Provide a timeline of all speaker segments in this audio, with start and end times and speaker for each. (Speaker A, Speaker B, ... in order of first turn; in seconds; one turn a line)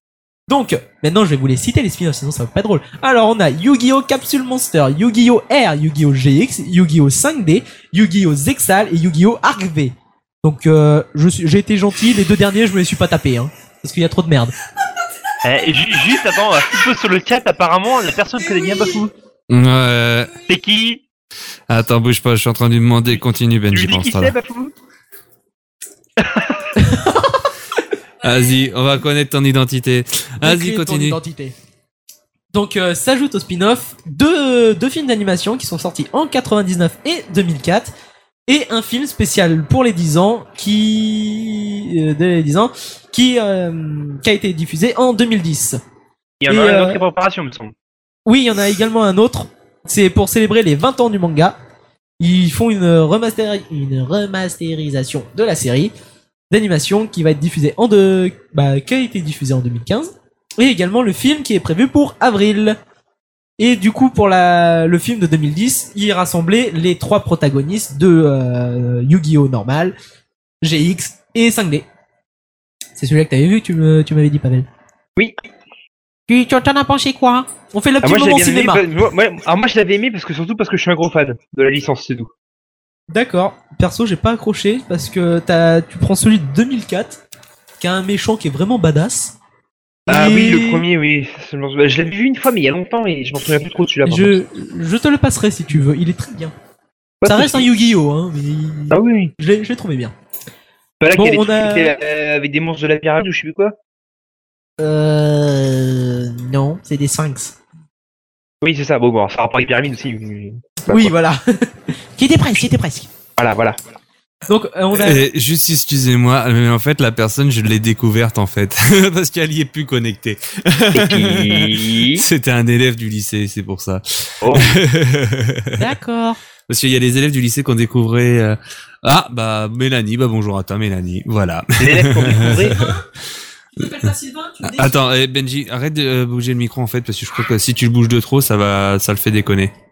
Speaker A: 0.5-14.5
Speaker B: 15.4-19.1
Speaker C: 19.5-20.4
Speaker B: 20.5-21.0
Speaker C: 21.7-24.3
Speaker B: 23.7-24.7
Speaker B: 26.2-26.7
Speaker A: 26.8-27.4
Speaker C: 28.2-31.2
Speaker A: 30.4-31.5
Speaker A: 32.5-37.9
Speaker A: 38.5-45.8
Speaker B: 46.4-47.7
Speaker A: 46.5-47.0
Speaker A: 48.2-51.5
Speaker A: 52.2-55.9
Speaker A: 56.5-62.8
Speaker A: 63.6-69.9
Speaker A: 70.6-71.8
Speaker A: 73.0-74.7
Speaker A: 76.3-78.8
Speaker B: 78.0-82.3
Speaker A: 83.1-87.2
Speaker A: 87.8-89.3
Speaker A: 90.1-90.8
Speaker B: 90.1-94.4
Speaker A: 94.0-96.5
Speaker B: 97.2-97.6
Speaker A: 97.2-100.1
Speaker B: 98.9-99.3
Speaker B: 101.0-103.7
Speaker A: 101.1-101.9
Speaker A: 104.8-107.5
Speaker B: 108.6-111.1
Speaker A: 110.9-113.1
Speaker B: 113.4-113.8
Speaker A: 114.5-115.2
Speaker C: 114.9-125.9
Speaker B: 120.9-122.2
Speaker B: 124.4-124.7
Speaker A: 125.8-126.4
Speaker C: 126.7-133.0
Speaker B: 131.8-132.9
Speaker A: 133.8-135.0
Speaker C: 134.6-139.7